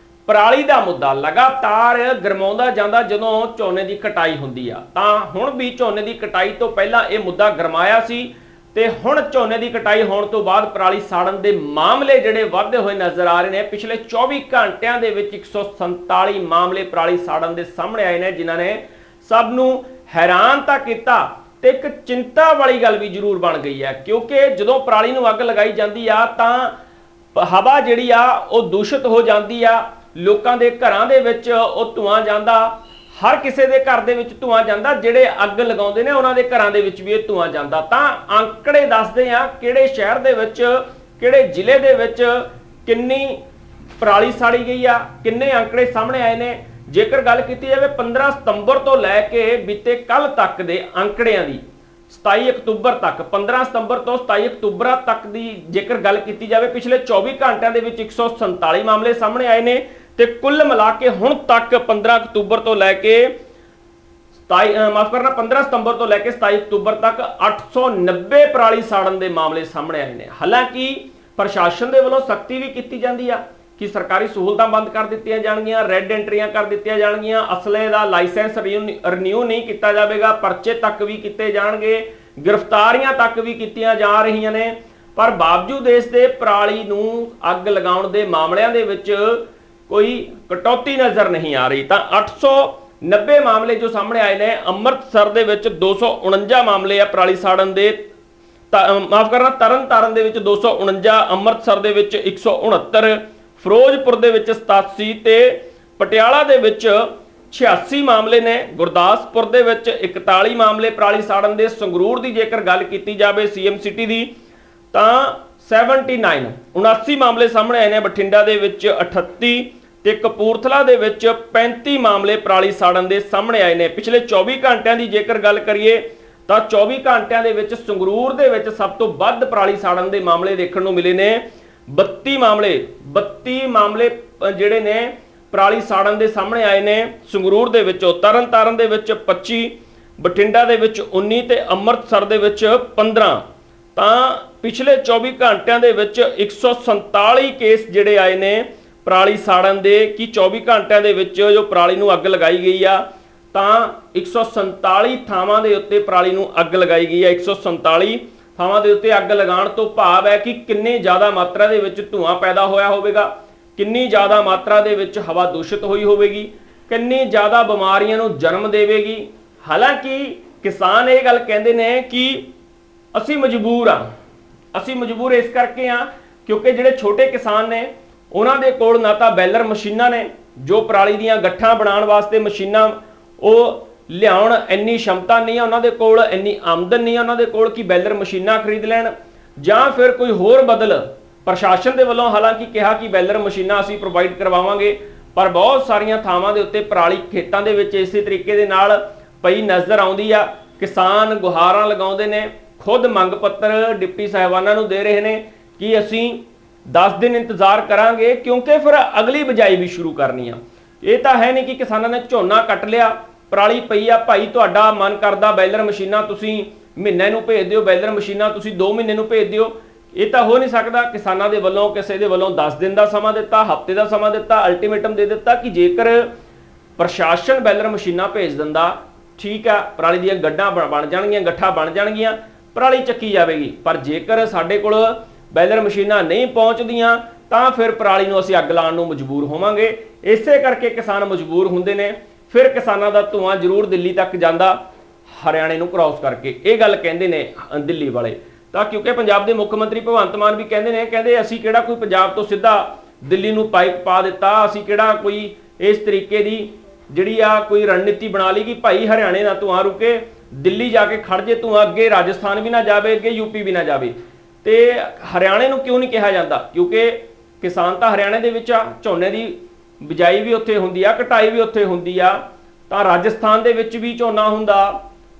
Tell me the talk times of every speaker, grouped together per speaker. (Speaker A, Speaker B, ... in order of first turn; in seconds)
Speaker A: 0.2-26.7, 27.3-43.4, 44.0-63.3, 64.5-98.0, 98.7-114.3, 114.9-143.4, 143.9-153.0, 153.5-172.5, 173.1-174.0, 174.7-226.3, 227.0-244.8, 245.3-275.0